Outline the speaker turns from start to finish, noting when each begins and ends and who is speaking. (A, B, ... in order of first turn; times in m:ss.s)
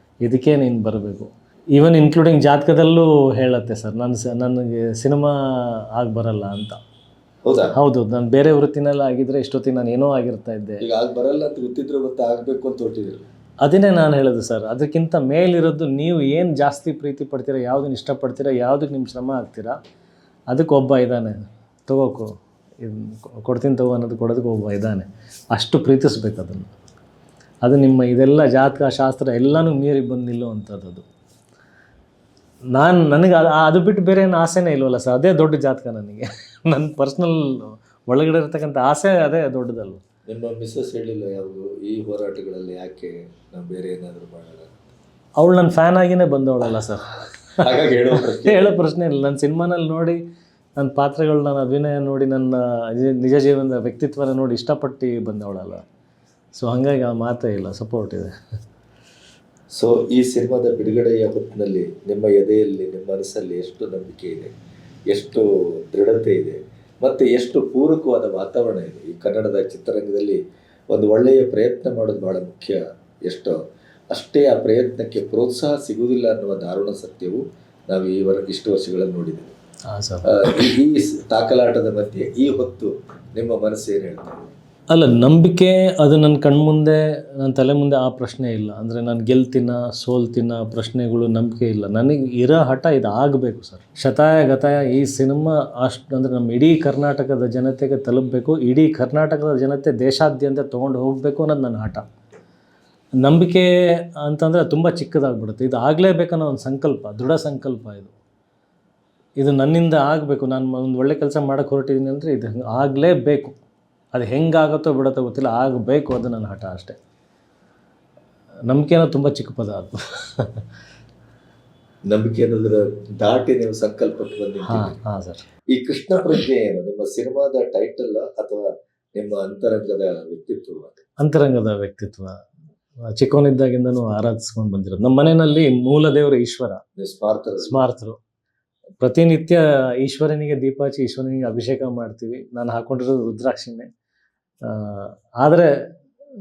0:00.2-0:06.8 A
0:07.4-0:07.8 B
0:07.7-0:10.8 A
0:10.8-0:13.3 B
0:13.6-0:19.8 A
0:20.5-0:22.3 A
0:22.8-0:26.7 A
0:27.6-0:31.0 A
0:32.7-0:40.0 A
0:40.3-0:44.8 B
0:45.4-0:47.6 A
0:47.6-0:48.8 B
0:48.1-0:50.2 A
0:50.8-0:55.8 A
0:56.6-0:58.3 A
0:59.7-1:04.5 B
1:05.1-1:10.4 B
1:10.9-1:13.6 B
1:14.1-1:19.6 B
1:19.9-1:20.7 A
1:20.3-1:24.5 B
1:24.9-1:42.0 A
1:43.2-1:48.2 A
1:49.4-1:53.6 A
1:54.1-1:57.0 A
1:58.7-2:00.6 A
2:02.1-2:05.0 B
2:04.7-2:05.4 A
2:05.7-2:11.0 B
2:11.2-2:12.4 A
2:13.2-2:16.8 A
2:17.0-2:17.8 B
2:17.6-2:18.2 A
2:19.0-2:23.9 A
2:24.6-2:25.7 A